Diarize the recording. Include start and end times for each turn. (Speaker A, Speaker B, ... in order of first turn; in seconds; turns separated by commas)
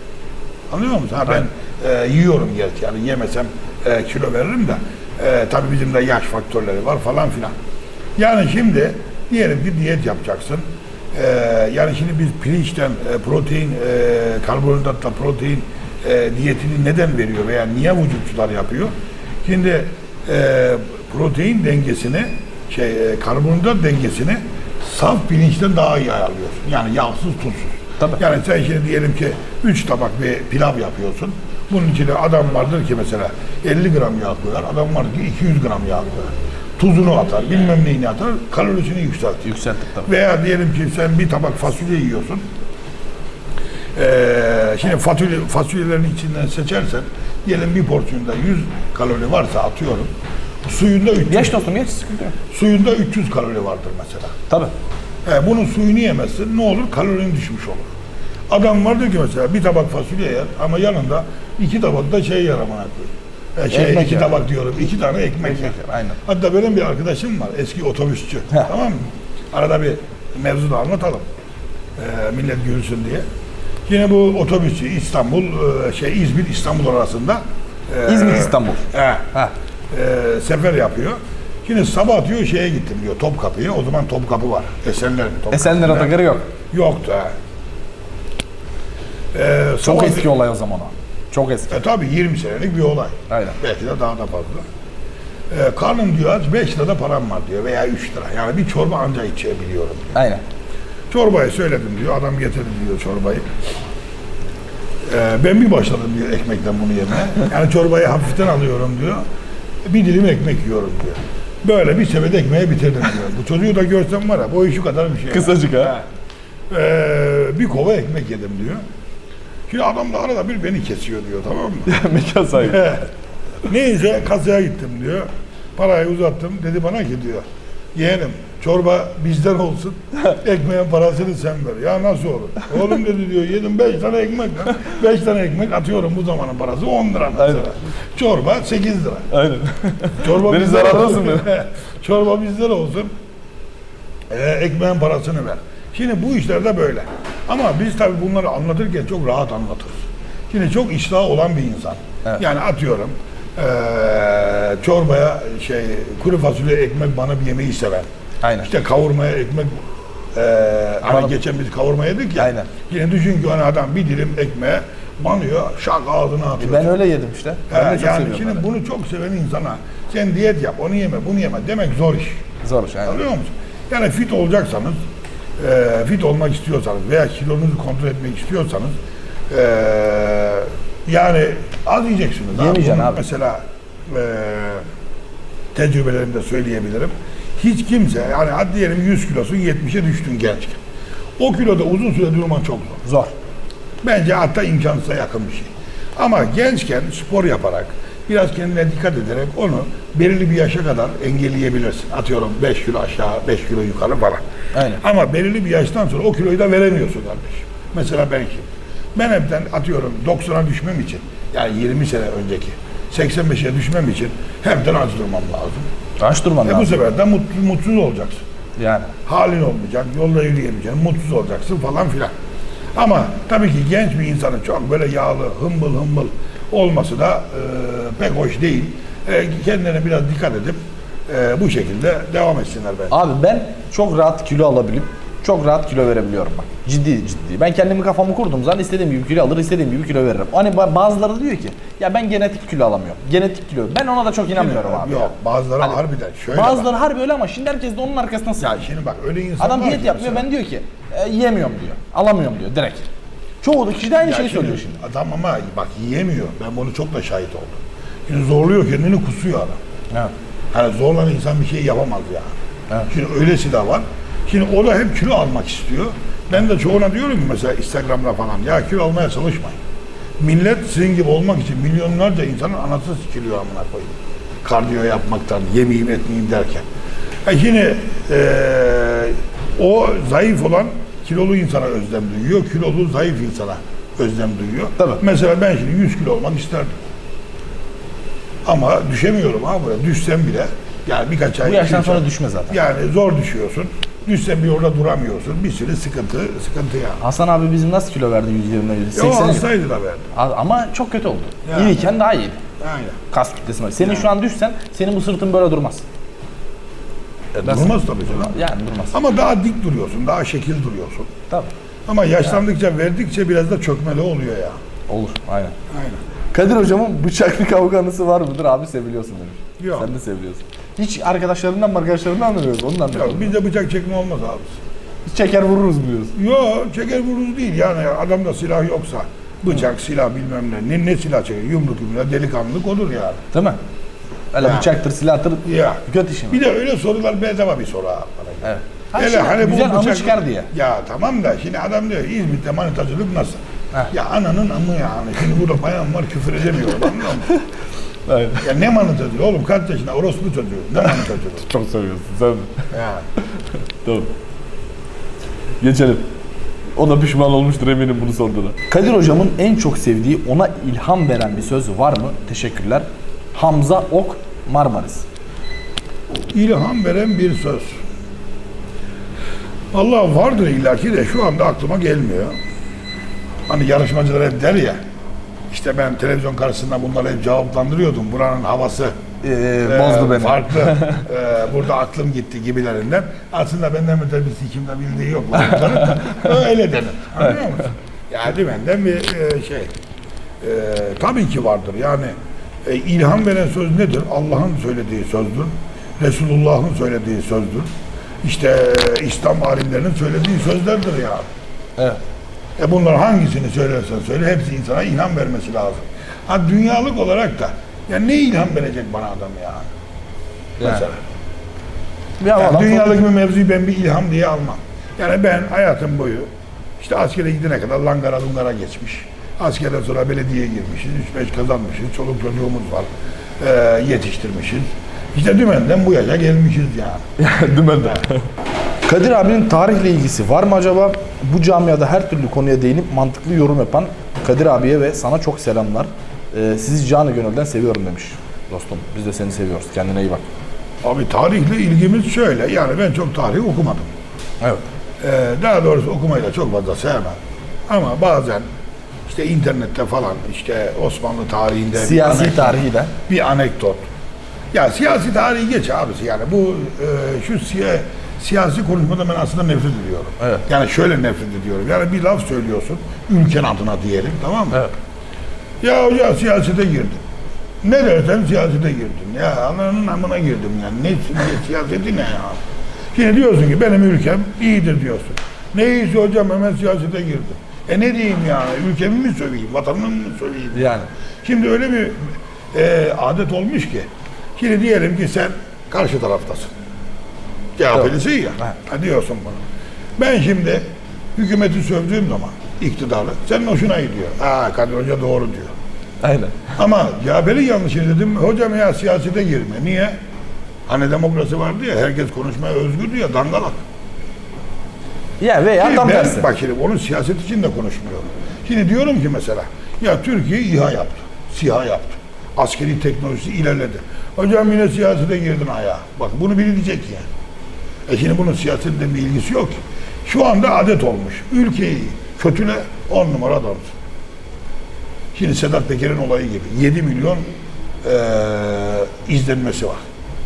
Speaker A: 0.7-7.5, Speaker A: 8.2-18.9, Speaker A: 19.4-39.5, Speaker B: 39.4-40.1, Speaker A: 40.0-42.4, Speaker A: 44.0-50.1, Speaker A: 50.6-51.6, Speaker B: 51.2-52.4, Speaker A: 52.5-54.3, Speaker A: 55.3-57.9, Speaker A: 58.5-71.3, Speaker B: 63.7-64.4, Speaker B: 65.4-66.2, Speaker A: 72.0-73.2, Speaker A: 73.9-79.3, Speaker B: 78.1-79.5, Speaker A: 79.9-86.2, Speaker B: 85.5-86.5, Speaker A: 86.7-87.3, Speaker A: 89.3-90.3, Speaker B: 89.8-91.8, Speaker A: 91.7-94.7, Speaker B: 93.3-93.6, Speaker A: 95.5-100.2, Speaker B: 100.2-100.4, Speaker A: 101.1-103.5, Speaker A: 105.1-109.2, Speaker A: 109.9-116.0, Speaker B: 115.3-116.0, Speaker A: 116.7-118.8, Speaker A: 119.7-121.9, Speaker B: 121.9-122.8, Speaker A: 122.6-123.1, Speaker A: 123.7-127.4, Speaker A: 128.0-139.3, Speaker B: 137.4-137.7, Speaker B: 139.3-141.5, Speaker A: 140.2-143.1, Speaker A: 144.3-158.1, Speaker B: 158.4-158.7, Speaker A: 158.6-167.0, Speaker B: 161.0-161.4, Speaker B: 162.4-162.7, Speaker B: 166.6-168.7, Speaker A: 167.7-172.4, Speaker B: 172.6-173.2, Speaker A: 173.1-175.0, Speaker A: 175.6-178.9, Speaker A: 179.5-184.8, Speaker B: 182.5-183.2, Speaker A: 185.7-190.8, Speaker A: 191.4-193.0, Speaker B: 193.1-193.3, Speaker A: 194.0-204.4, Speaker B: 204.7-205.0, Speaker A: 204.9-215.9, Speaker B: 216.2-216.9, Speaker A: 216.6-218.4, Speaker B: 218.8-219.1, Speaker A: 219.3-222.3, Speaker A: 222.9-233.2, Speaker B: 233.1-246.0, Speaker A: 244.5-246.9, Speaker B: 246.5-248.8, Speaker A: 248.6-250.5, Speaker B: 249.6-253.1, Speaker B: 253.6-255.0, Speaker A: 254.2-259.8, Speaker A: 260.7-262.5, Speaker A: 263.1-269.8, Speaker A: 270.4-276.9, Speaker A: 277.4-286.9, Speaker A: 288.6-297.2, Speaker B: 291.6-292.8, Speaker B: 297.2-299.7, Speaker A: 299.1-300.3, Speaker B: 300.3-302.6, Speaker A: 301.7-302.0, Speaker A: 302.8-303.2, Speaker B: 303.3-306.1, Speaker A: 304.0-304.3, Speaker B: 307.6-309.2, Speaker A: 307.6-308.5, Speaker A: 309.1-311.3, Speaker A: 312.1-314.8, Speaker B: 315.1-315.8, Speaker A: 315.9-316.2, Speaker B: 316.5-323.5, Speaker A: 319.8-320.1, Speaker A: 323.1-324.8, Speaker B: 325.3-326.4, Speaker A: 326.4-333.4, Speaker B: 333.5-333.8, Speaker B: 334.5-336.6, Speaker A: 334.6-334.9, Speaker A: 335.6-343.6, Speaker B: 338.6-340.7, Speaker A: 344.1-347.5, Speaker B: 348.3-348.7, Speaker A: 348.6-351.6, Speaker B: 351.0-352.8, Speaker A: 352.9-353.3, Speaker B: 354.0-354.3, Speaker B: 355.8-356.2, Speaker B: 357.0-365.3, Speaker A: 366.5-368.0, Speaker A: 369.9-372.5, Speaker A: 373.7-375.0, Speaker A: 375.7-379.1, Speaker B: 379.4-381.2, Speaker A: 379.8-389.9, Speaker B: 385.6-386.5, Speaker A: 390.6-392.3, Speaker A: 392.9-397.9, Speaker A: 398.4-401.5, Speaker A: 402.8-409.9, Speaker B: 410.8-411.1, Speaker A: 410.8-411.2, Speaker B: 412.4-413.2, Speaker A: 412.6-423.1, Speaker A: 423.6-427.3, Speaker B: 427.4-428.4, Speaker A: 428.0-428.2, Speaker B: 429.1-440.4, Speaker A: 441.0-444.1, Speaker A: 445.2-447.4, Speaker A: 447.9-448.7, Speaker A: 449.3-454.0, Speaker B: 451.9-453.1, Speaker A: 454.7-464.8, Speaker A: 465.8-467.2, Speaker A: 467.8-472.6, Speaker A: 473.1-480.9, Speaker B: 480.7-481.1, Speaker A: 481.4-486.7, Speaker A: 487.8-489.6, Speaker B: 487.9-488.8, Speaker A: 490.2-490.8, Speaker A: 491.4-495.7, Speaker B: 496.2-496.7, Speaker A: 496.8-500.1, Speaker A: 500.9-503.8, Speaker B: 505.4-506.5, Speaker A: 505.8-517.2, Speaker A: 518.1-523.9, Speaker A: 525.4-527.5, Speaker A: 528.0-530.0